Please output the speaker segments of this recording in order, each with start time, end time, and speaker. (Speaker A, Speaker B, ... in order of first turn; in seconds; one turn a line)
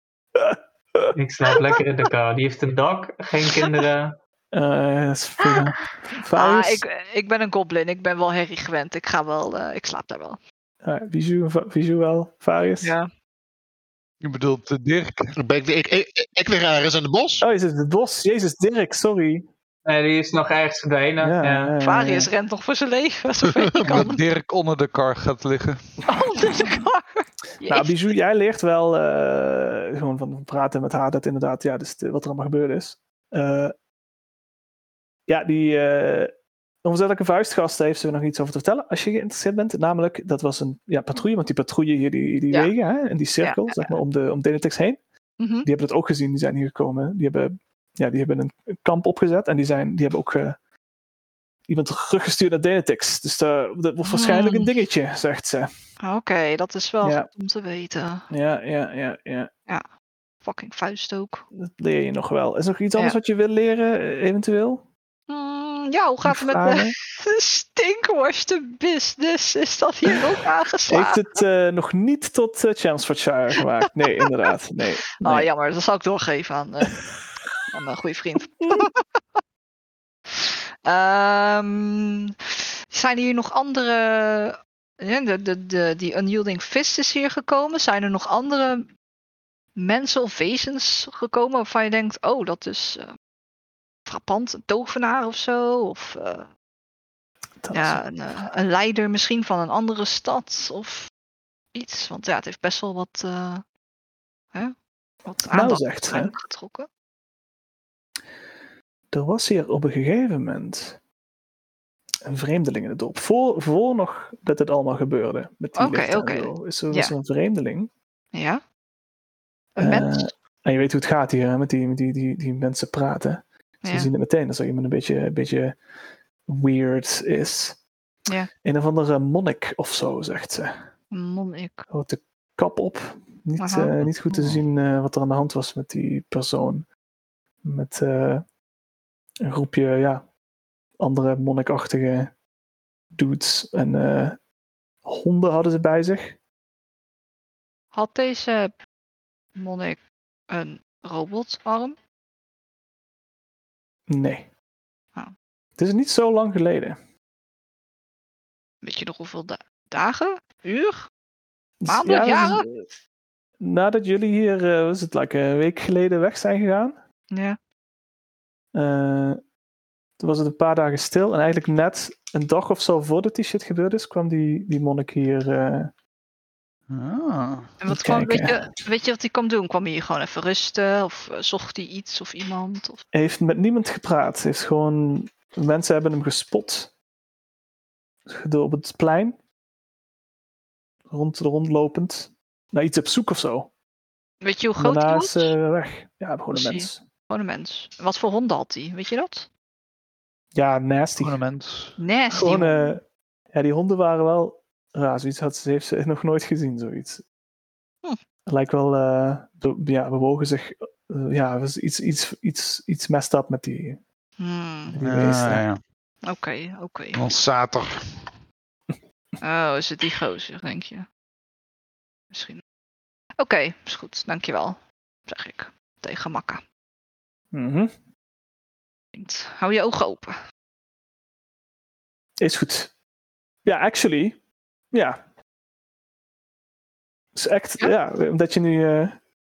Speaker A: 0.3-1.1
Speaker B: 1.1-4.2
Speaker A: 4.5-6.8
Speaker C: 6.3-10.4
Speaker A: 10.8-12.9
Speaker C: 12.8-13.1
Speaker D: 14.2-15.3
Speaker E: 15.4-17.5
Speaker A: 17.4-19.5
Speaker B: 19.9-21.7
Speaker A: 21.2-22.3
Speaker C: 21.8-24.2
Speaker D: 23.8-26.0
Speaker C: 26.1-28.1
Speaker A: 27.7-33.7
Speaker A: 35.3-36.3
Speaker A: 36.8-45.0
Speaker C: 43.4-43.9
Speaker C: 45.4-45.7
Speaker A: 45.6-50.6
Speaker A: 51.7-55.7
Speaker C: 54.0-54.8
Speaker C: 56.0-58.3
Speaker A: 57.0-57.3
Speaker A: 58.3-59.5
Speaker C: 60.4-61.4
Speaker A: 61.6-64.8
Speaker C: 65.3-71.4
Speaker A: 66.2-67.0
Speaker A: 70.9-75.5
Speaker C: 75.2-77.0
Speaker C: 77.7-79.4
Speaker C: 80.3-88.9
Speaker C: 89.8-93.1
Speaker C: 94.1-96.5
Speaker A: 97.6-98.0
Speaker C: 97.7-101.1
Speaker C: 101.7-103.6
Speaker C: 105.3-106.9
Speaker A: 105.5-106.3
Speaker A: 109.1-111.0
Speaker A: 112.2-117.9
Speaker C: 115.8-117.1
Speaker C: 118.3-118.6
Speaker C: 119.8-120.3
Speaker A: 119.8-125.8
Speaker C: 123.8-124.1
Speaker A: 126.5-127.8
Speaker A: 128.6-130.9
Speaker C: 131.1-131.8
Speaker A: 131.9-136.9
Speaker C: 133.6-134.6
Speaker A: 137.6-138.4
Speaker A: 139.4-140.2
Speaker A: 141.0-142.3
Speaker A: 143.1-144.4
Speaker A: 145.1-146.4
Speaker C: 147.9-148.8
Speaker C: 149.6-152.0
Speaker A: 154.1-154.5
Speaker A: 155.8-157.0
Speaker C: 158.8-161.1
Speaker A: 161.8-162.9
Speaker C: 161.9-162.7
Speaker A: 163.6-167.0
Speaker C: 167.3-167.6
Speaker A: 168.7-169.4
Speaker A: 170.2-175.9
Speaker D: 176.9-177.8
Speaker C: 177.8-183.0
Speaker A: 177.9-178.6
Speaker A: 183.1-186.9
Speaker A: 188.3-189.4
Speaker A: 191.1-193.7
Speaker C: 194.4-195.5
Speaker A: 194.8-197.0
Speaker C: 196.5-199.5
Speaker A: 200.5-201.4
Speaker D: 201.2-202.0
Speaker C: 202.0-203.0
Speaker A: 202.3-207.2
Speaker A: 208.5-214.0
Speaker C: 214.4-215.0
Speaker A: 214.9-215.7
Speaker D: 215.0-215.8
Speaker C: 216.2-217.2
Speaker D: 217.2-218.3
Speaker C: 219.4-221.1
Speaker C: 222.3-222.6
Speaker C: 223.4-226.6
Speaker A: 227.5-227.9
Speaker C: 229.2-230.3
Speaker A: 232.4-232.9
Speaker A: 233.7-234.4
Speaker A: 234.9-235.2
Speaker A: 237.3-239.2